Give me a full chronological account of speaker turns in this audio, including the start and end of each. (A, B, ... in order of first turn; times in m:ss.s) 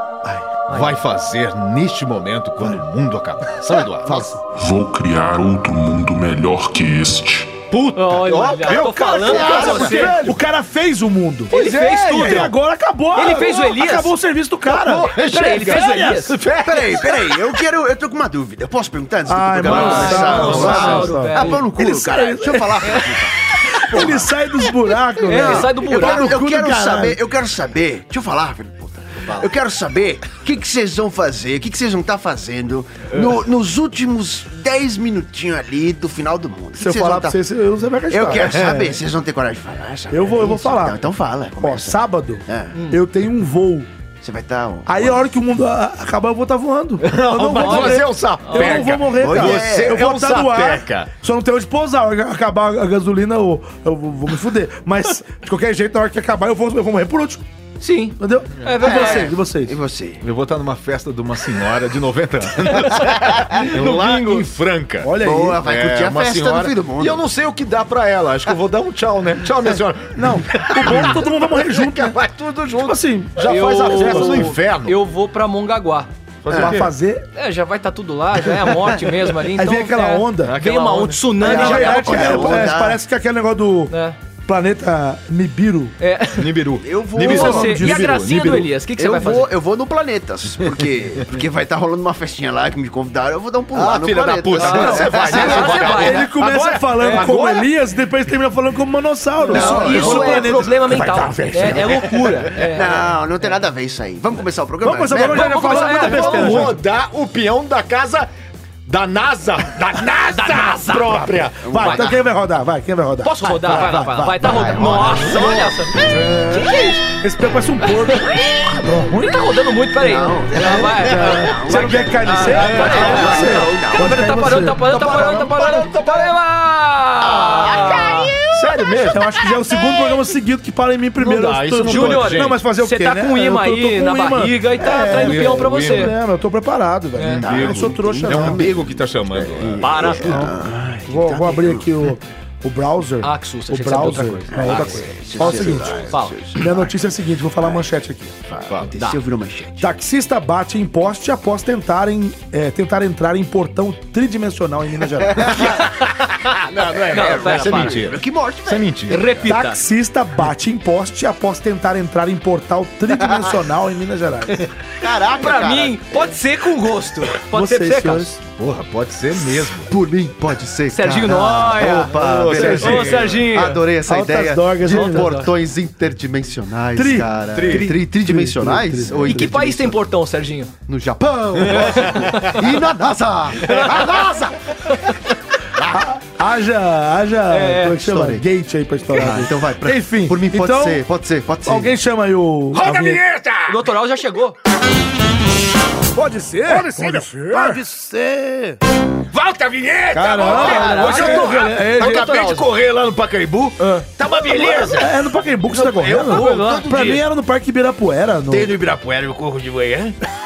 0:00.2-0:00.5 A
0:00.6-0:04.3 B
0:00.7-0:01.0 C
0:04.0-0:04.4 A
0:04.5-0:07.6 D
0:07.7-0:10.3 B
0:08.0-0:10.2 C
0:08.7-0:16.3 A
0:09.2-0:10.1 E
0:11.5-0:12.5 C
0:11.5-0:12.5 B
0:13.1-0:14.1 C
0:14.7-0:17.4 B
0:15.1-0:16.4 C
0:16.6-0:24.3 E
0:19.2-0:23.1 A
0:19.6-0:21.6 C
0:19.6-0:21.1 B
0:22.8-0:23.2 C
0:23.6-0:27.2 A
0:25.2-0:26.3 C
0:25.3-0:37.4 E
0:36.8-0:38.8 A
0:38.1-0:42.7 E
0:38.5-0:38.9 B
0:40.1-0:41.0 A
0:41.6-0:43.9 A
0:44.2-0:45.2 E
0:44.8-0:57.4 A
0:47.0-0:51.1 B
0:47.5-0:48.9 C
0:49.1-0:50.0 E
0:57.8-0:59.3 C
0:58.2-0:59.7 A
0:58.8-1:00.2 E
1:00.2-1:15.0 B
1:03.0-1:04.4 C
1:05.0-1:05.6 A
1:05.2-1:07.2 E
1:09.6-1:12.2 A
1:12.8-1:14.5 A
1:13.4-1:16.1 C
1:16.4-1:16.9 B
1:16.5-1:17.2 A
1:17.3-1:22.6 C
1:19.5-1:20.6 A
1:20.4-1:22.7 B
1:21.4-1:23.0 E
1:21.4-1:23.9 A
1:23.9-1:24.2 C
1:24.5-1:25.9 A
1:26.0-1:26.5 C
1:26.3-1:28.7 B
1:26.8-1:27.7 E
1:27.2-1:29.5 C
1:27.2-1:28.1 A
1:29.0-1:36.1 E
1:33.7-1:36.3 B
1:34.6-1:37.3 C
1:34.7-1:42.2 A
1:37.1-1:37.7 B
1:39.4-1:43.1 C
1:39.5-1:40.6 E
1:40.9-1:42.4 B
1:42.7-1:45.8 E
1:44.8-1:46.8 A
1:45.2-1:46.8 C
1:45.5-1:48.3 B
1:48.8-1:51.7 B
1:50.3-1:52.2 C
1:51.6-1:55.4 A
1:51.6-1:52.1 E
1:53.2-1:57.0 C
1:53.4-1:53.7 E
1:54.4-1:55.8 E
1:56.0-1:59.4 A
1:57.9-1:58.3 C
1:59.2-2:08.4 C
2:00.0-2:04.2 E
2:00.5-2:05.1 A
2:02.5-2:03.6 B
2:04.8-2:06.3 B
2:07.2-2:08.8 E
2:08.5-2:09.3 B
2:09.1-2:18.7 A
2:11.2-2:12.6 B
2:11.8-2:16.2 C
2:15.0-2:16.1 B
2:17.2-2:17.4 C
2:17.2-2:20.2 B
2:17.4-2:21.9 E
2:19.8-2:20.5 C
2:20.1-2:28.4 A
2:23.2-2:26.3 C
2:24.5-2:26.9 E
2:28.5-2:29.9 E
2:28.6-2:28.9 B
2:29.8-2:35.7 A
2:35.3-2:36.0 E
2:36.4-2:39.5 B
2:36.8-2:38.9 E
2:37.1-2:38.1 C
2:39.1-2:39.8 C
2:39.4-2:44.7 A
2:45.0-2:46.4 E
2:45.3-2:48.4 C
2:47.5-2:48.4 A
2:48.4-2:49.9 B
2:49.4-3:00.0 E
2:50.9-2:53.8 C
2:51.8-2:53.2 A
2:52.1-2:53.4 B
2:54.0-2:55.3 A
2:54.9-2:55.5 C
2:56.9-2:59.5 A
2:57.5-2:57.9 B
2:59.2-3:00.7 C
3:00.9-3:04.6 E
3:01.6-3:02.6 B
3:03.6-3:04.3 B
3:05.8-3:06.0 E
3:05.9-3:11.0 A
3:07.5-3:08.1 C
3:08.0-3:08.4 E
3:09.1-3:11.9 E
3:11.6-3:13.2 A
3:12.7-3:13.8 B
3:13.7-3:14.6 C
3:16.1-3:18.8 A
3:16.7-3:17.8 B
3:19.3-3:25.2 B
3:20.1-3:22.5 A
3:20.4-3:22.6 C
3:20.7-3:21.0 E
3:24.6-3:28.7 A
3:25.7-3:27.2 B
3:26.2-3:27.1 C
3:28.5-3:30.2 B